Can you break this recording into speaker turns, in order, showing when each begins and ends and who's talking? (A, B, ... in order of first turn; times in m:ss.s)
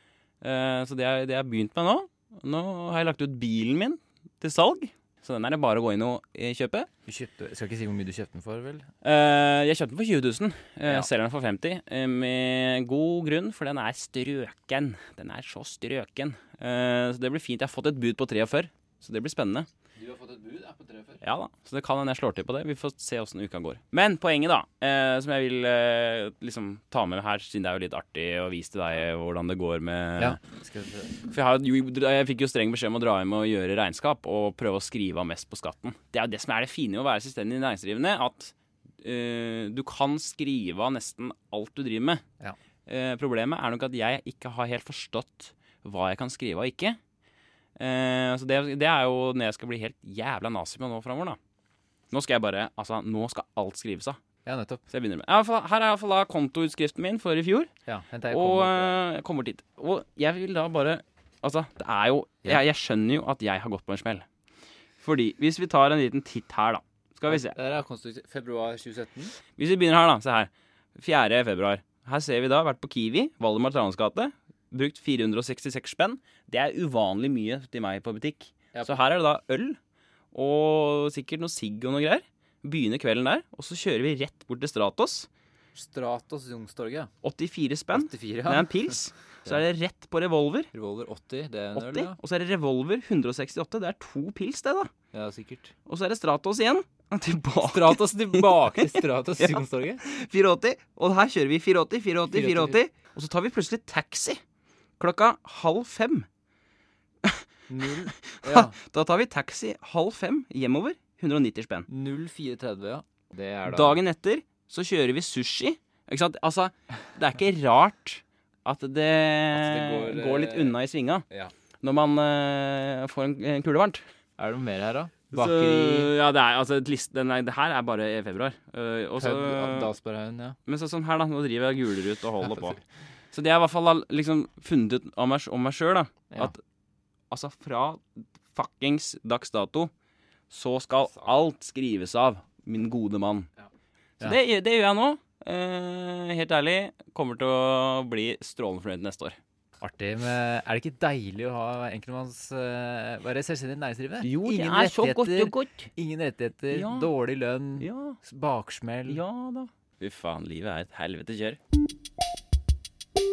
0:00.4-0:06.9 A
0:07.1-0:08.9 B
0:09.0-0:19.7 A
0:20.0-0:21.2 B
0:21.2-0:30.4 A
0:30.2-0:31.2 B
0:31.3-0:42.2 A
0:42.9-0:47.0 A
0:47.8-0:51.4 A
0:52.1-0:54.2 A
0:54.4-0:54.8 B
0:54.9-0:57.7 A
0:57.8-0:59.0 B
0:58.3-1:04.2 A
1:05.0-1:07.6 A
1:07.3-1:09.4 B
1:09.6-1:19.8 A
1:18.7-1:19.0 B
1:20.3-1:25.3 A
1:25.7-1:27.1 B
1:27.2-1:30.7 A
1:27.9-1:29.6 B
1:30.7-1:32.2 B
1:31.7-1:34.9 A
1:35.1-1:35.7 B
1:35.8-1:44.4 A
1:37.6-1:40.0 B
1:42.3-1:42.8 B
1:45.0-1:46.3 A
1:47.2-1:51.9 A
1:47.7-1:48.8 B
1:51.9-1:54.0 B
1:53.6-2:01.2 A
1:59.5-2:00.7 B
2:01.8-2:04.0 A
2:04.4-2:06.1 B
2:05.3-2:09.9 A
2:09.2-2:10.6 B
2:10.6-2:12.8 A
2:12.4-2:12.8 B
2:13.3-2:16.6 A
2:17.3-2:19.9 A
2:20.5-2:23.5 A
2:24.2-2:29.4 A
2:29.8-2:39.2 B
2:34.2-2:35.9 A
2:36.7-2:37.1 A
2:37.8-2:38.2 A
2:39.1-2:41.6 A